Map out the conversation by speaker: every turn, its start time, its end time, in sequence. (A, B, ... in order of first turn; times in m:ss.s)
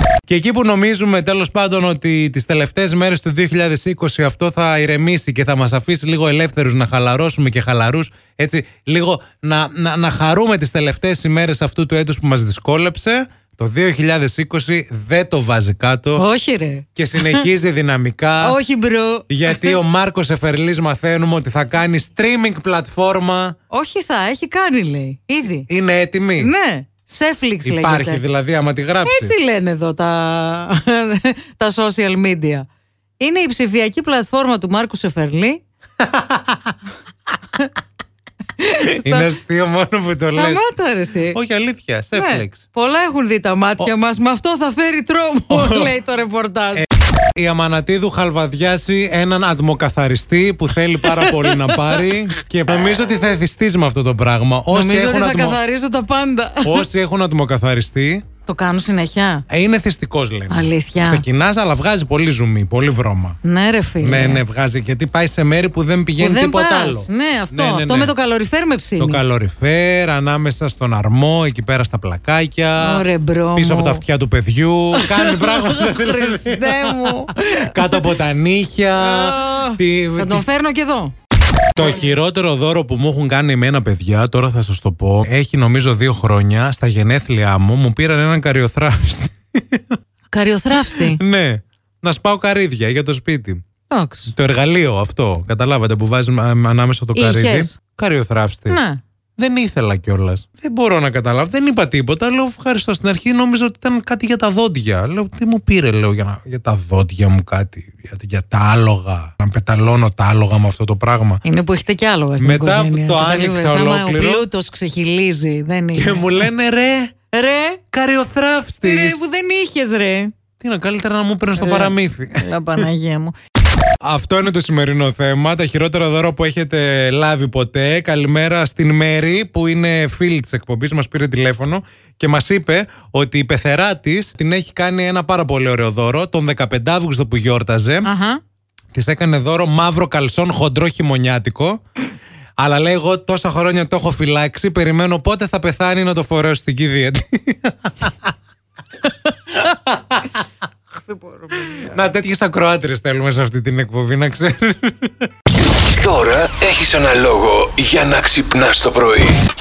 0:00.3-0:16.2 A
0:16.2-0:17.5 B
0:17.0-0:18.6 A
0:18.4-0:19.8 B
0:19.3-0:23.6 A
0:23.7-0:25.7 B
0:25.7-0:26.5 A
0:26.4-0:28.2 B
0:27.6-0:29.3 A
0:29.0-0:32.7 B
0:33.2-0:35.6 B
0:36.0-0:36.8 A
0:38.6-0:39.3 B
0:39.0-0:40.6 A
0:40.3-0:41.4 B
0:41.3-0:42.6 A
0:42.1-0:46.9 B
0:45.5-0:45.9 A
0:46.8-0:55.6 A
0:51.0-0:52.1 B
0:54.7-0:56.9 B
0:56.6-0:58.2 A
0:58.4-0:59.4 B
0:59.5-1:03.4 A
1:00.5-1:01.2 B
1:03.4-1:04.4 B
1:04.0-1:08.1 A
1:06.2-1:09.2 B
1:09.0-1:13.0 A
1:12.8-1:14.0 B
1:13.6-1:20.4 A
1:14.9-1:18.1 B
1:19.0-1:21.1 B
1:21.8-1:29.9 A
1:30.3-1:31.2 B
1:30.9-1:33.6 A
1:33.9-1:34.3 B
1:34.3-1:38.8 A
1:37.2-1:37.8 B
1:38.7-1:39.0 B
1:39.4-1:51.4 A
1:51.4-1:56.5 B
1:52.4-1:54.4 A
1:55.9-1:57.2 A
1:57.3-1:57.8 B
1:57.9-1:59.2 A
1:58.8-2:00.3 B
2:00.6-2:02.9 A
2:01.6-2:03.3 B
2:04.0-2:18.1 A
2:18.0-2:18.4 B
2:18.9-2:21.8 A
2:22.6-2:28.3 A
2:29.6-2:30.2 A
2:30.9-2:31.9 B
2:31.6-2:35.3 A
2:35.9-2:39.4 C